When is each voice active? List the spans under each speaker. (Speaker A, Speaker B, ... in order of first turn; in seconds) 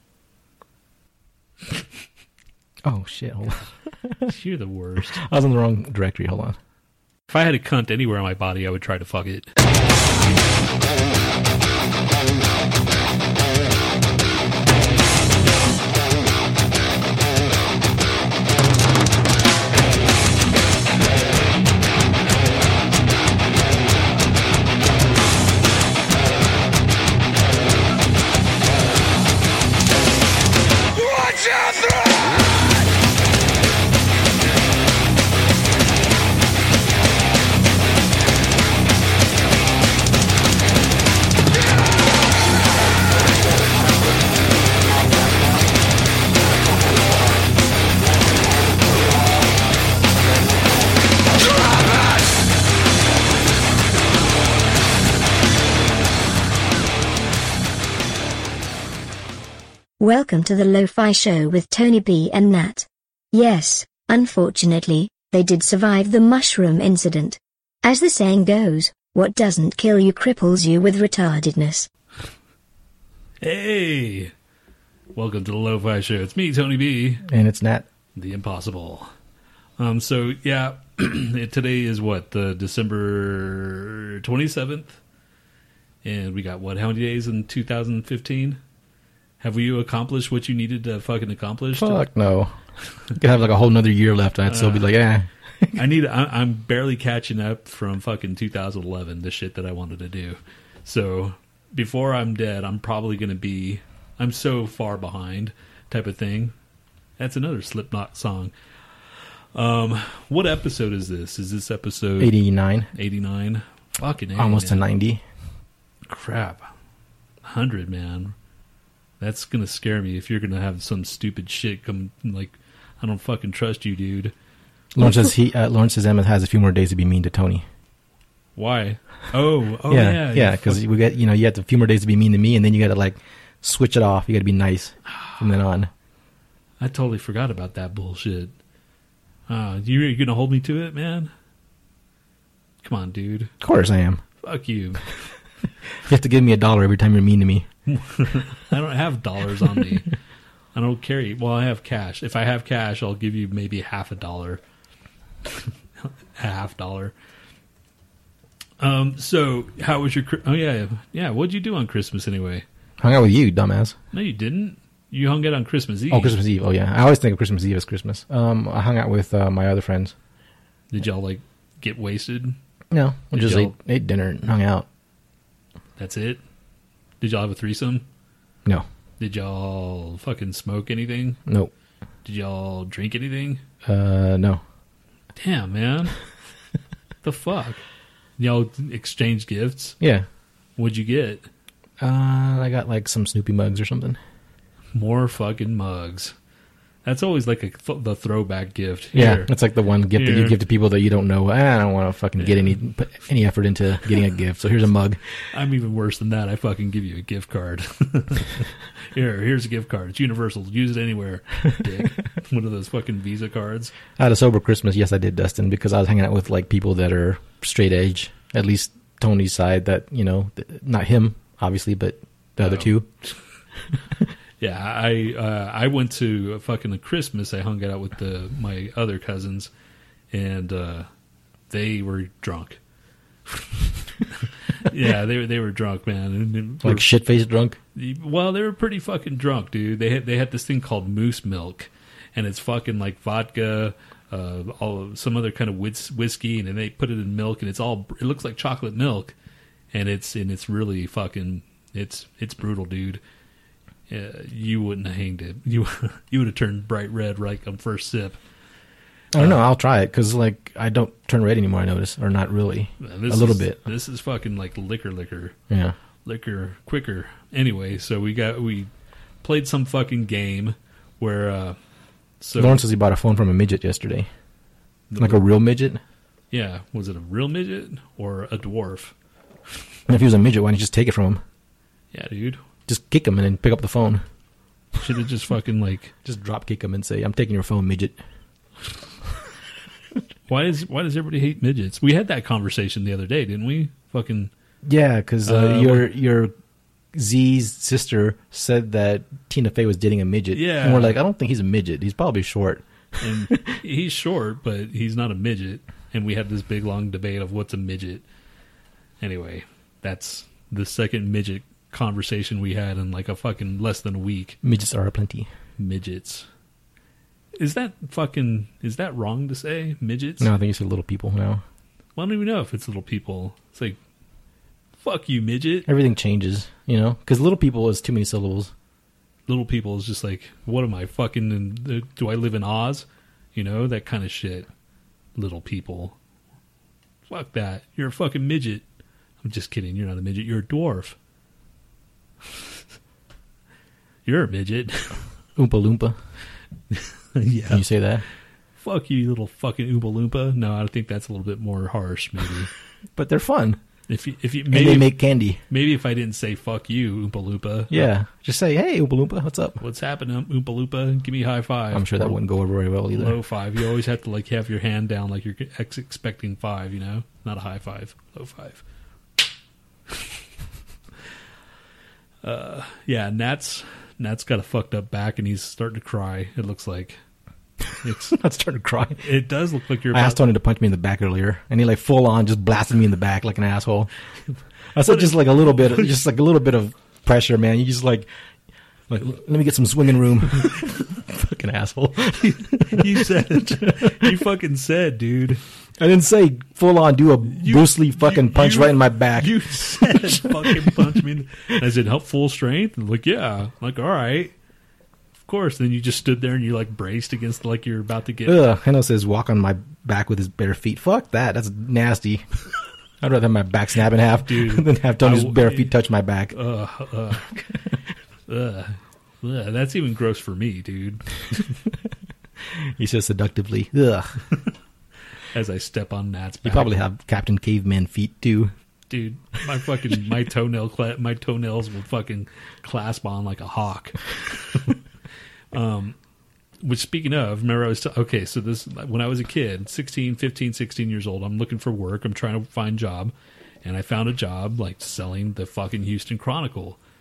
Speaker A: 2.8-4.3, 5.2-6.6, 77.3-77.8, 91.7-92.5, 93.1-95.8, 112.2-112.9, 114.3-115.2, 124.9-127.6, 129.9-135.9, 143.6-144.2, 146.0-147.7, 163.0-163.9, 166.1-170.1, 172.9-174.8, 181.5-181.7, 183.8-184.6, 190.0-190.2, 192.0-194.2, 199.1-205.2, 214.2-223.1, 236.8-237.8, 259.3-263.8, 265.7-265.9, 272.6-274.3, 275.2-276.0, 280.1-281.4, 282.9-284.2, 286.2-288.1, 294.9-296.5, 297.1-302.8, 314.6-315.5, 320.4-321.6, 325.9-328.7, 345.6-346.1, 347.7-348.2, 353.1-353.8, 354.7-355.6, 357.9-359.8, 361.9-363.4, 378.3-379.2, 380.1-384.1, 384.9-388.3, 389.1-393.1, 393.7-394.3, 396.0-400.9, 408.4-412.5, 413.2-416.5, 422.7-424.4, 426.6-428.7
Speaker B: 4.3-5.2, 7.3-9.5, 73.4-74.3, 75.1-77.2, 78.1-79.1, 79.8-85.0, 86.0-88.6, 89.4-92.1, 94.5-94.9, 95.7-106.5, 107.2-108.5, 109.1-112.3, 112.9-114.9, 116.0-116.6, 117.4-118.3, 119.2-124.3, 128.6-130.8, 136.8-138.5, 139.5-141.3, 142.8-143.5, 144.4-145.2, 147.9-150.1, 150.7-154.6, 155.4-157.1, 158.8-162.6, 164.1-166.3, 170.9-172.6, 173.3-173.7, 176.0-176.4, 177.2-178.1, 179.2-181.4, 182.2-183.6, 185.3-186.2, 187.2-187.8, 188.4-190.0, 190.8-191.5, 194.9-196.3, 197.0-199.5, 200.1-200.6, 202.4-202.7, 205.5-213.9, 222.6-222.9, 224.6-229.7, 230.3-231.1, 231.7-232.8, 233.5-237.1, 237.9-249.3, 249.9-253.2, 254.1-258.4, 263.0-265.6, 266.2-268.9, 269.4-271.8, 272.4-272.8, 275.1-275.4, 276.5-279.1, 282.1-282.6, 285.0-286.1, 290.5-294.5, 295.4-296.1, 300.5-301.2, 303.2-308.2, 309.2-314.6, 315.8-316.5, 317.6-320.5, 322.1-324.0, 325.0-325.9, 329.5-334.7, 335.4-336.2, 337.3-338.8, 339.4-341.1, 344.2-345.2, 346.9-347.9, 348.8-352.7, 354.1-355.1, 355.7-358.1, 359.8-362.4, 363.1-368.8, 372.4-377.2, 378.0-378.4, 379.2-380.4, 385.1-386.0, 392.4-395.6, 397.5-404.5, 405.4-408.6, 414.4-415.9, 416.5-417.5, 418.5-421.6, 425.5-426.9, 429.1-435.0, 435.7-436.2, 436.8-443.3, 443.8-447.0
Speaker C: 60.0-71.9